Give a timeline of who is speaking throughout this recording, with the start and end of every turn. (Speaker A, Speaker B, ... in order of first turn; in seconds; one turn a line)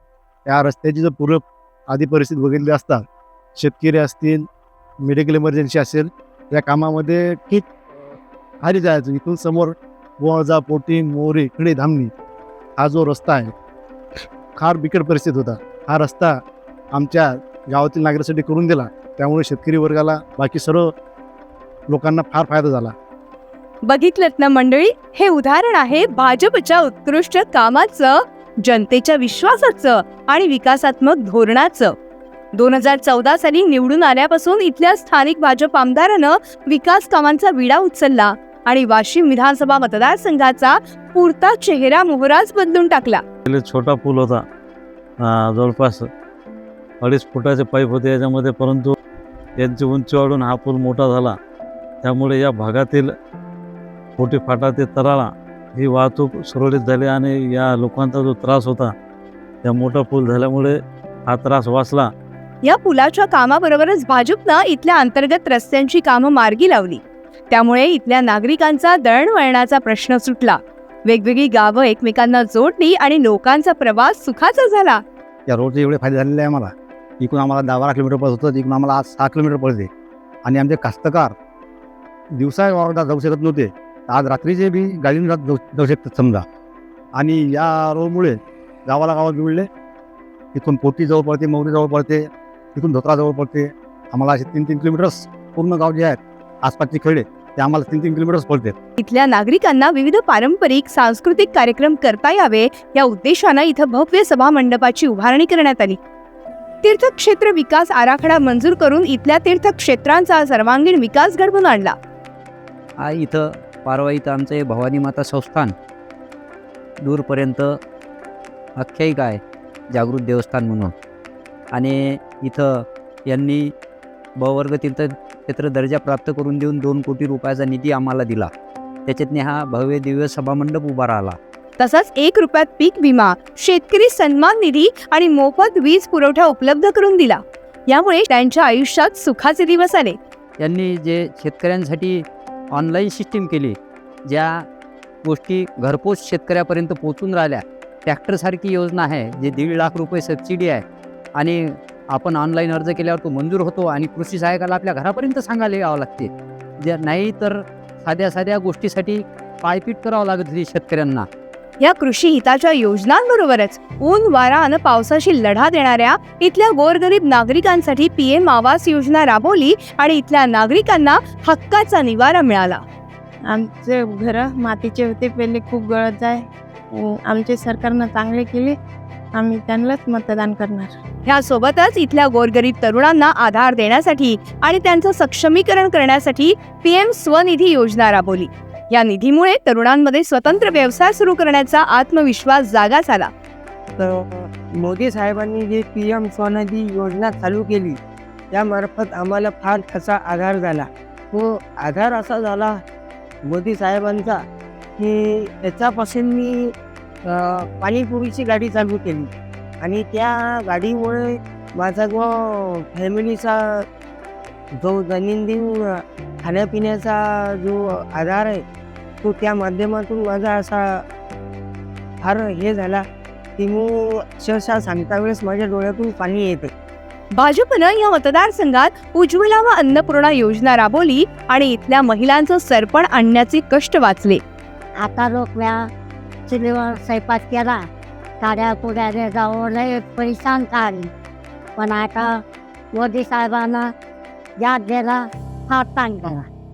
Speaker A: 0.5-3.0
Speaker A: 3.6-4.5
Speaker A: 5.0-7.7
Speaker A: 8.6-12.1
Speaker A: 12.8-13.5
Speaker A: 14.6-16.4
Speaker A: 16.9-20.9
Speaker A: 21.9-22.9
Speaker B: 23.9-31.9
Speaker B: 32.5-43.2
Speaker C: 43.5-44.4
Speaker C: 45.2-46.1
Speaker C: 47.0-48.9
Speaker C: 49.6-51.3
Speaker C: 52.0-53.1
Speaker C: 54.2-58.9
Speaker C: 59.6-60.7
Speaker C: 61.3-62.1
Speaker B: 62.6-75.0
Speaker A: 75.5-79.9
Speaker A: 80.4-81.3
Speaker A: 82.3-86.4
Speaker A: 87.2-89.7
Speaker A: 90.5-98.7
Speaker B: 99.0-106.0
Speaker B: 106.8-111.9
Speaker D: 113.0-115.7
Speaker D: 117.0-117.8
Speaker D: 118.8-119.4
Speaker D: 119.9-120.9
Speaker D: 121.7-123.7
Speaker D: 124.4-128.5
Speaker D: 129.1-131.4
Speaker B: 131.8-140.2
Speaker D: 140.6-144.6
Speaker D: 145.2-150.8
Speaker D: 151.4-161.3
Speaker B: 161.8-172.8
Speaker E: 173.5-178.8
Speaker E: 179.3-180.9
Speaker B: 181.3-193.3
Speaker F: 193.9-198.0
Speaker F: 198.5-202.8
Speaker F: 203.4-204.4
Speaker F: 205.0-209.3
Speaker F: 209.8-213.8
Speaker F: 214.7-218.6
Speaker F: 219.2-221.0
Speaker F: 222.2-223.0
Speaker F: 223.6-226.7
Speaker B: 227.3-234.4
Speaker G: 235.0-235.9
Speaker G: 236.5-237.9
Speaker G: 238.4-241.1
Speaker G: 241.8-242.4
Speaker G: 242.9-243.9
Speaker G: 244.6-246.5